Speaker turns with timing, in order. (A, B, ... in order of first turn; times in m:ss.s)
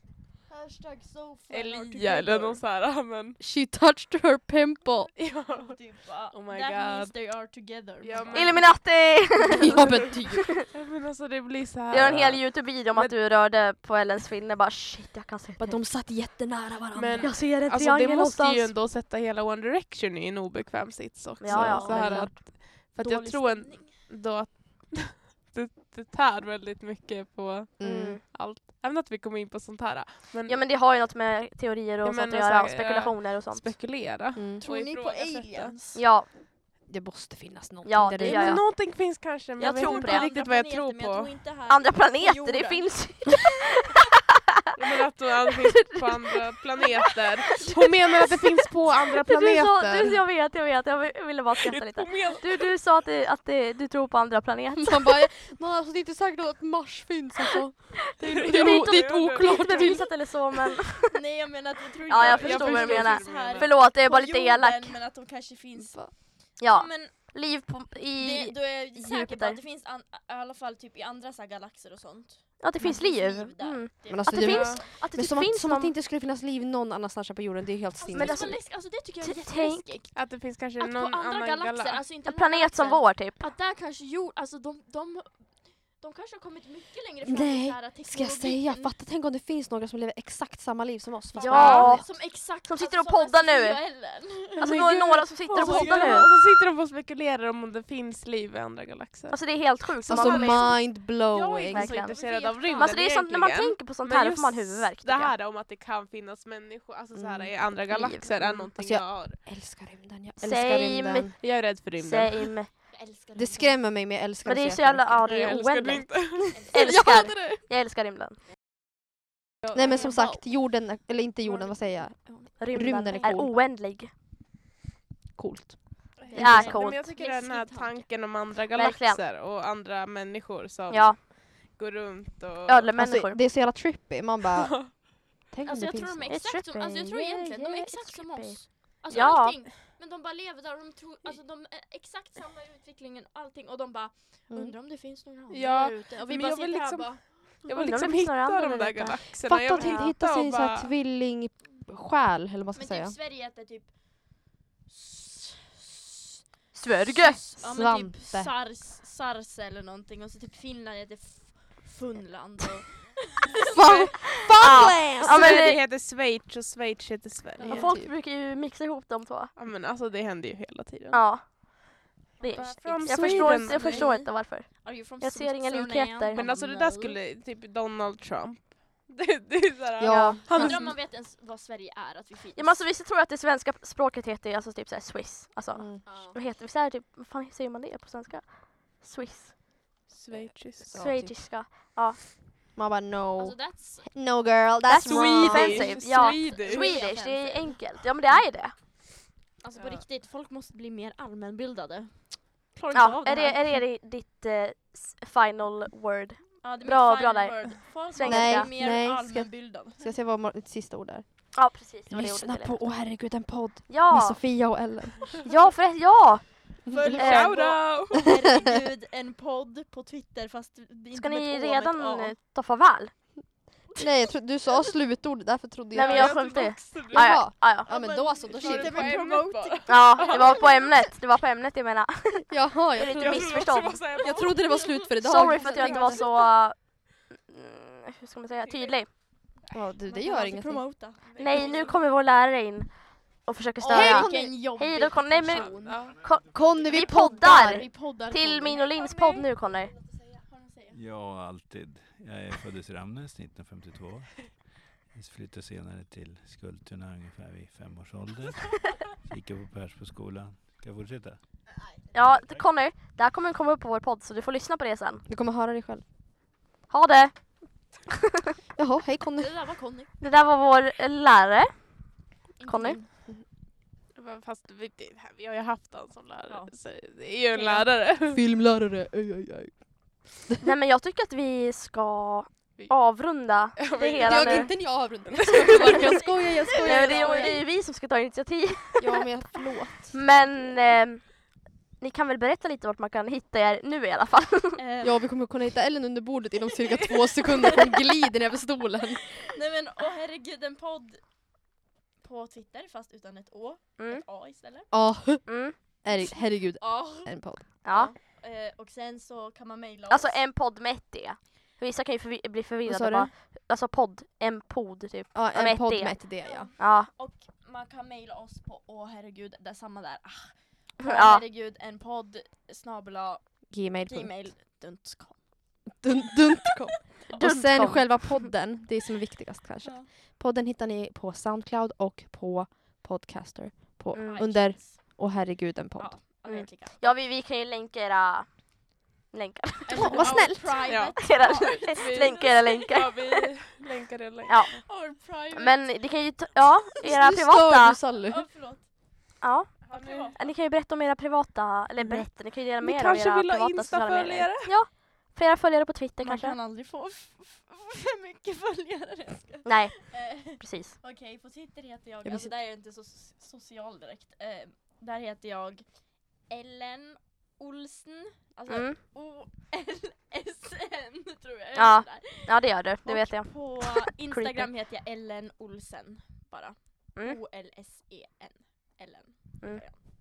0:00.5-0:02.6 A
0:01.5-0:03.4 B
0:03.4-0:05.1 C
0:05.2-0:07.2 B
0:05.5-0:08.6 A
0:08.0-0:08.8 B
0:08.3-0:09.9 D
0:09.6-0:10.6 C
0:10.7-0:13.2 B
0:11.9-0:15.8 D
0:15.6-0:17.4 C
0:16.9-0:30.6 B
0:17.2-0:18.7 D
0:21.4-0:22.4 D
0:21.4-0:22.3 C
0:21.7-0:24.0 A
0:27.8-0:28.2 C
0:27.8-0:28.2 D
0:30.5-0:33.7 D
0:32.0-0:35.8 B
0:34.4-0:34.6 C
0:34.6-0:36.0 A
0:36.0-0:36.3 D
0:36.9-0:38.6 C
0:37.8-0:38.6 D
0:38.2-0:41.3 B
0:39.6-0:43.0 A
0:39.8-0:40.3 D
0:41.7-0:43.9 D
0:44.8-0:50.2 B
0:49.2-0:55.1 D
0:51.6-0:52.7 B
0:54.8-1:00.3 C
0:58.2-1:01.2 D
0:58.3-1:00.0 B
1:01.1-1:07.3 A
1:02.1-1:05.0 D
1:02.2-1:03.7 B
1:06.6-1:09.6 D
1:08.2-1:14.7 A
1:12.6-1:15.9 D
1:14.1-1:18.6 C
1:14.4-1:14.8 B
1:18.0-1:29.0 A
1:18.1-1:19.9 D
1:20.1-1:22.0 B
1:22.3-1:23.4 D
1:27.2-1:32.1 C
1:31.3-1:34.8 A
1:31.4-1:33.8 D
1:31.5-1:31.8 B
1:34.6-1:36.3 D
1:34.6-1:40.7 B
1:35.5-1:36.3 A
1:39.3-1:40.8 D
1:40.0-1:41.9 C
1:41.3-1:49.4 B
1:41.7-1:42.2 D
1:41.8-1:43.0 A
1:42.7-1:45.3 D
1:47.1-1:47.6 C
1:47.9-1:48.3 D
1:48.4-1:51.4 C
1:50.4-1:52.7 D
1:51.4-1:52.6 B
1:52.9-1:53.8 A
1:53.4-1:55.3 C
1:54.4-1:58.4 D
1:55.2-1:57.6 B
1:56.8-1:57.2 C
1:59.6-1:59.9 B
1:59.7-2:03.5 C
1:59.8-2:00.5 A
2:01.4-2:03.6 A
2:02.6-2:04.1 D
2:05.4-2:06.7 C
2:06.2-2:12.9 B
2:06.2-2:08.1 A
2:06.4-2:07.0 D
2:08.7-2:09.2 D
2:10.9-2:11.2 D
2:12.7-2:13.4 D
2:13.0-2:16.6 C
2:15.6-2:27.2 A
2:16.3-2:19.6 D
2:24.5-2:24.8 C
2:25.5-2:30.9 B
2:27.6-2:29.2 D
2:29.4-2:33.2 C
2:29.8-2:30.1 A
2:32.7-2:44.5 A
2:36.7-2:37.5 D
2:37.6-2:38.5 C
2:43.7-2:45.7 C
2:44.6-2:47.9 B
2:45.2-2:45.8 D
2:45.2-2:45.6 A
2:47.6-2:48.1 C
2:47.6-2:49.5 D
2:49.6-2:51.3 B
2:51.1-2:56.4 D
2:52.4-2:57.2 A
2:52.6-2:54.1 B
2:56.3-3:00.9 B
3:00.0-3:01.0 C
3:00.1-3:00.4 D
3:00.5-3:02.8 A
3:02.6-3:09.8 D
3:05.8-3:06.3 C
3:06.1-3:06.4 A
3:10.1-3:11.0 B
3:10.8-3:12.2 D
3:10.8-3:11.5 C
3:12.7-3:16.0 C
3:13.4-3:14.2 A
3:14.9-3:18.8 D
3:15.0-3:17.0 B
3:15.3-3:17.8 A
3:19.6-3:23.8 A
3:19.8-3:20.0 B
3:22.9-3:28.7 D
3:26.6-3:30.1 A
3:28.2-3:35.4 C
3:31.5-3:33.0 D
3:33.9-3:34.4 D
3:35.4-3:37.7 D
3:36.9-3:42.4 A
3:37.0-3:38.3 B
3:41.1-3:43.3 D
3:44.0-3:44.9 A
3:44.0-3:49.3 C
3:45.9-3:48.0 D
3:46.0-3:47.4 B
3:47.9-3:51.1 A
3:48.5-3:50.8 B
3:49.9-3:54.2 D
3:52.5-3:56.4 C
3:53.1-3:54.8 B
3:54.2-3:56.4 A
3:55.2-3:59.1 D
3:59.7-4:01.0 C
4:00.0-4:02.0 A
4:01.4-4:01.9 B
4:01.4-4:09.9 D
4:03.8-4:06.2 A
4:03.9-4:04.6 C
4:05.8-4:06.2 B
4:06.3-4:06.7 E
4:06.5-4:07.9 C
4:07.4-4:11.0 A
4:10.9-4:21.4 E
4:22.1-4:25.2 D
4:22.3-4:22.6 E
4:25.3-4:26.0 C
4:26.9-4:28.0 D
4:28.8-4:29.5 C
4:29.4-4:30.1 A
4:30.2-4:32.0 D
4:32.6-4:33.1 A
4:32.6-4:33.0 D
4:34.2-4:38.4 B
4:37.6-4:37.8 A
4:38.3-4:40.6 C
4:40.6-4:44.8 D
4:43.8-4:44.7 B
4:44.2-4:47.6 C
4:45.3-4:45.7 B
4:45.6-4:46.0 D
4:45.7-4:47.6 A
4:46.8-4:49.2 D
4:49.0-4:50.2 C
4:50.1-4:54.8 D
4:54.8-4:55.2 A
4:55.0-4:59.4 C
4:59.5-5:01.3 A
5:02.2-5:04.9 A
5:04.0-5:04.2 D
5:04.9-5:07.7 C
5:05.5-5:05.8 D
5:06.1-5:10.4 A
5:07.8-5:08.1 D
5:10.1-5:17.1 D
5:12.8-5:13.3 C
5:15.3-5:16.7 C
5:16.4-5:26.0 A
5:21.0-5:21.4 D
5:23.7-5:24.5 C
5:26.0-5:36.4 C
5:27.3-5:27.5 A
5:27.3-5:28.5 D
5:29.8-5:30.1 A
5:34.1-5:35.2 A
5:34.2-5:34.5 D
5:36.0-5:37.2 A
5:36.5-5:40.5 D
5:39.8-5:43.0 A
5:40.0-5:40.9 C
5:40.9-5:44.7 B
5:41.2-5:43.4 D
5:44.5-5:48.0 D
5:44.8-5:46.0 A
5:47.0-5:48.5 C
5:48.3-5:48.9 A
5:49.4-5:56.6 D
5:49.8-5:50.5 A
5:49.9-5:50.3 B
5:52.0-5:54.8 B
5:56.2-6:20.0 A
5:59.6-6:00.9 D
6:02.2-6:02.5 B
6:08.7-6:09.0 D
6:11.8-6:14.7 D